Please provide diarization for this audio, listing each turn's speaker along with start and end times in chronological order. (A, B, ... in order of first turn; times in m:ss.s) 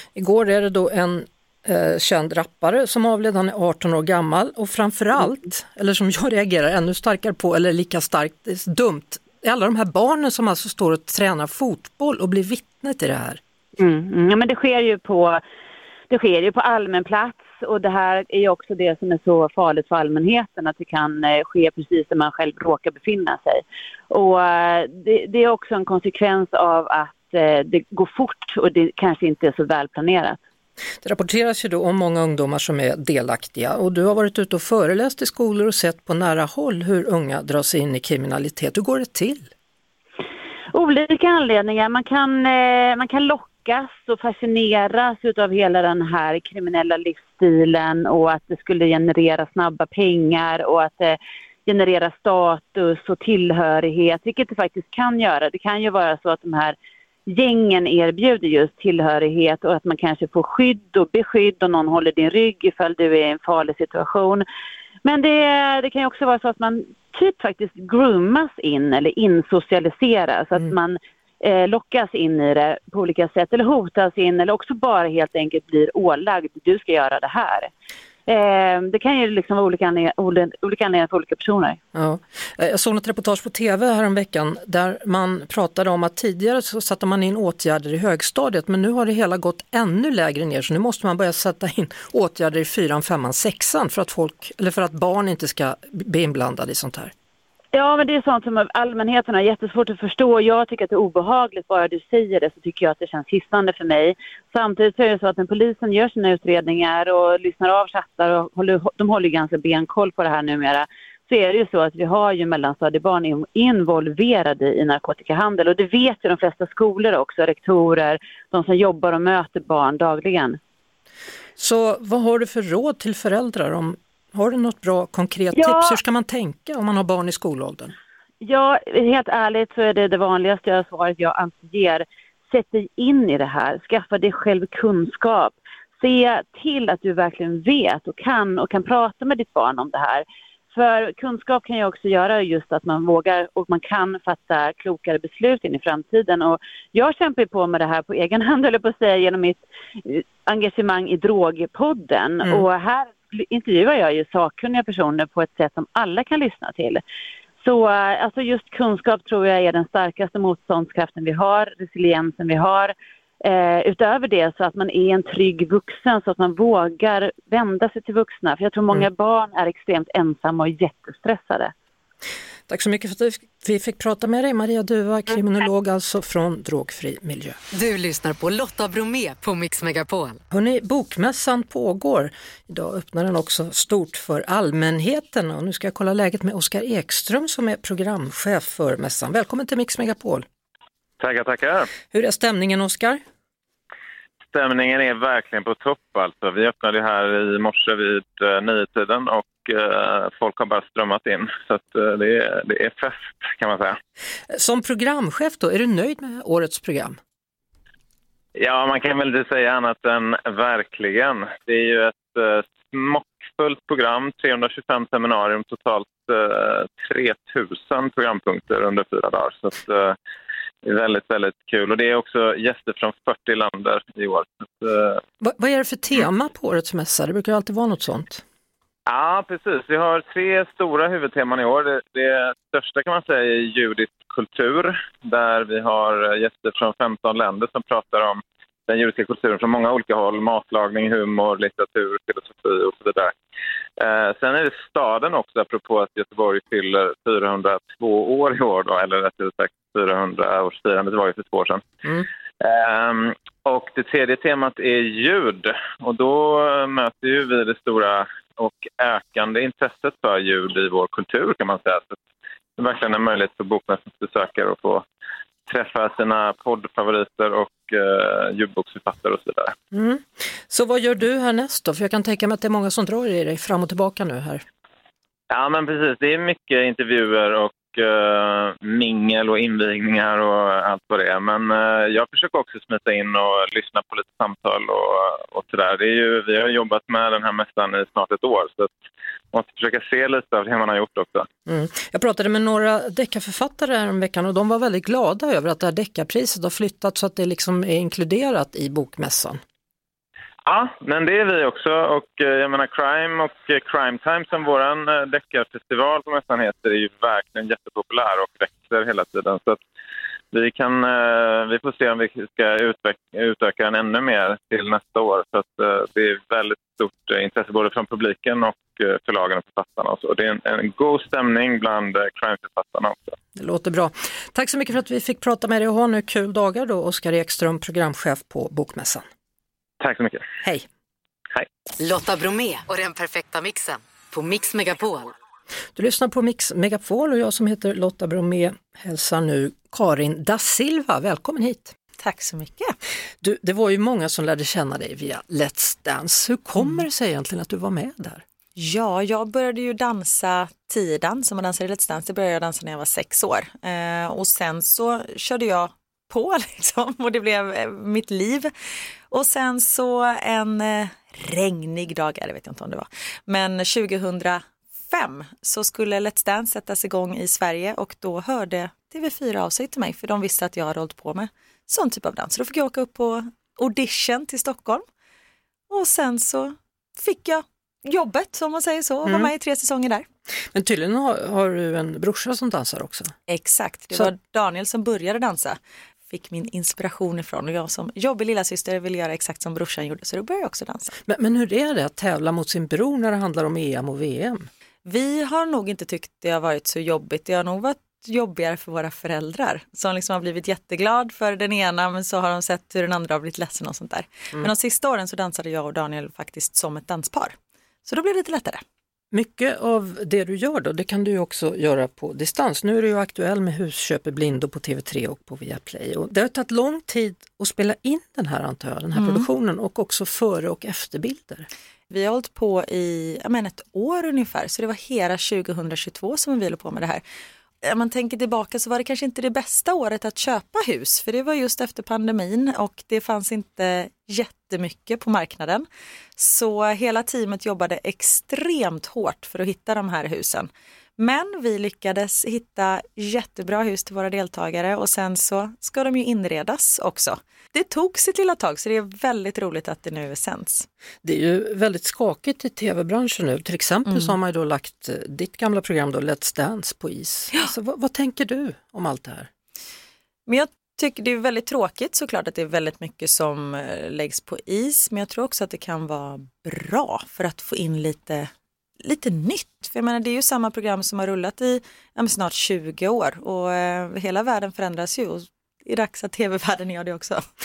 0:00.1-0:13.4 A
0:13.8-0:15.4 B
0:16.1-0:30.4 B
0:31.0-0:39.5 A
0:40.7-0:56.8 B
0:57.3-1:04.4 B
1:05.0-1:17.7 B
1:18.3-1:21.8 B
1:21.9-1:37.1 A
1:37.7-2:00.6 B
2:01.6-2:07.9 A
2:05.5-2:06.0 B
2:08.4-2:37.0 B
2:37.6-2:51.7 B
2:52.7-2:57.6 A
2:57.7-3:00.4 C
3:00.5-3:10.4 A
3:11.2-3:11.9 D
3:12.1-3:13.2 A
3:14.5-3:24.0 D
3:24.5-3:27.2 A
3:28.6-3:40.2 D
3:40.8-3:45.2 D
3:45.4-3:48.4 A
3:49.1-4:03.4 D
4:04.0-4:11.8 D
4:12.6-4:22.2 D
4:22.8-4:25.0 D
4:25.7-4:29.7 D
4:29.9-4:34.6 A
4:35.5-4:48.9 D
4:49.5-4:51.5 D
4:51.7-4:59.6 A
5:00.6-5:09.8 D
5:10.5-5:23.4 D
5:23.5-5:29.2 A
5:30.0-5:30.4 D
5:32.0-5:35.3 C
5:36.0-5:41.9 A
5:42.2-5:43.0 E
5:43.4-5:48.4 A
5:48.8-5:58.7 E
5:59.3-6:15.0 E
6:15.9-6:20.3 E
6:19.2-6:19.5 A
6:20.7-6:23.4 A
6:23.5-6:25.8 E
6:26.3-6:31.2 E
6:31.3-6:34.7 A
6:35.0-6:48.8 E
6:49.3-7:01.7 A
6:59.2-6:59.4 E
7:02.1-7:07.2 E
7:07.8-7:15.8 E
7:16.4-7:30.9 E
7:31.2-7:39.5 A
7:34.1-7:34.3 E
7:40.5-7:57.4 E